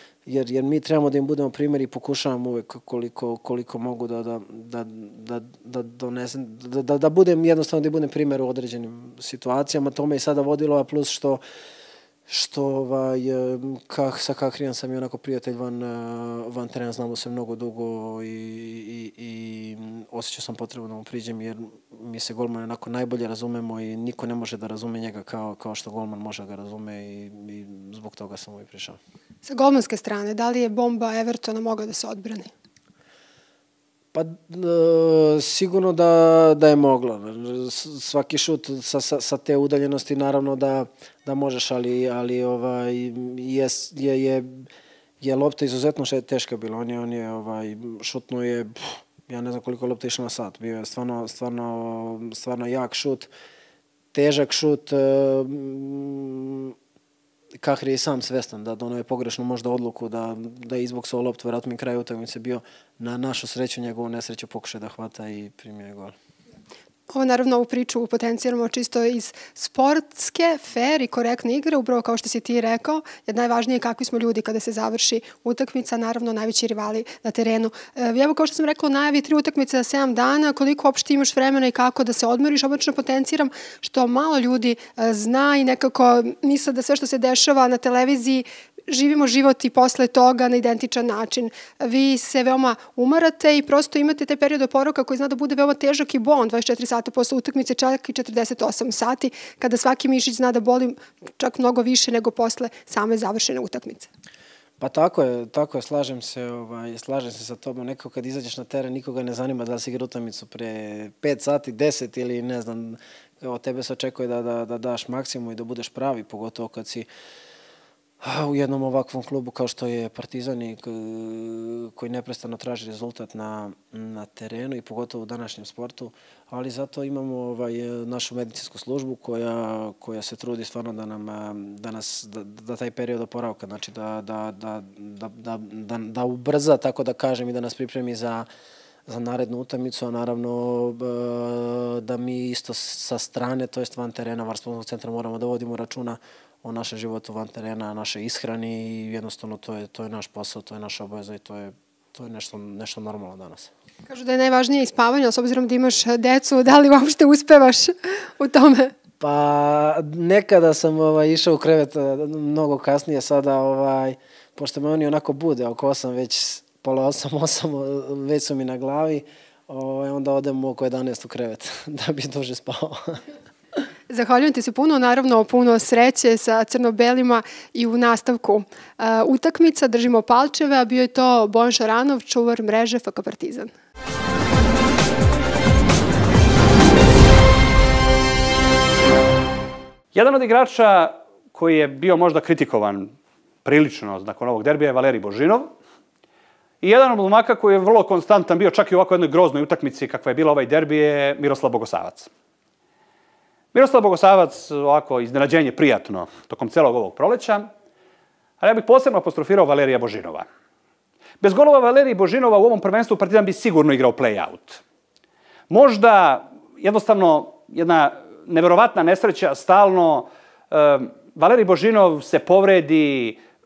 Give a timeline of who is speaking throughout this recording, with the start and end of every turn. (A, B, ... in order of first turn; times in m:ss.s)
0:00.2-0:11.4 A
0:12.3-0:29.0 A
0:29.4-0:32.5 B
0:34.1-0:44.6 A
0:45.2-0:53.3 A
0:54.1-0:56.7 A
0:57.6-1:06.1 A
1:07.1-1:44.1 B
1:44.8-1:57.1 A
1:58.2-2:18.5 A
2:19.1-2:33.7 A
2:34.1-2:38.9 B
2:39.2-2:53.2 A
2:54.1-3:03.7 B
3:10.1-3:13.1 C
3:13.6-3:15.7 C
3:16.8-3:22.3 C
3:23.7-3:27.7 C
3:28.6-3:30.4 C
3:31.4-3:34.8 C
3:35.7-3:43.4 C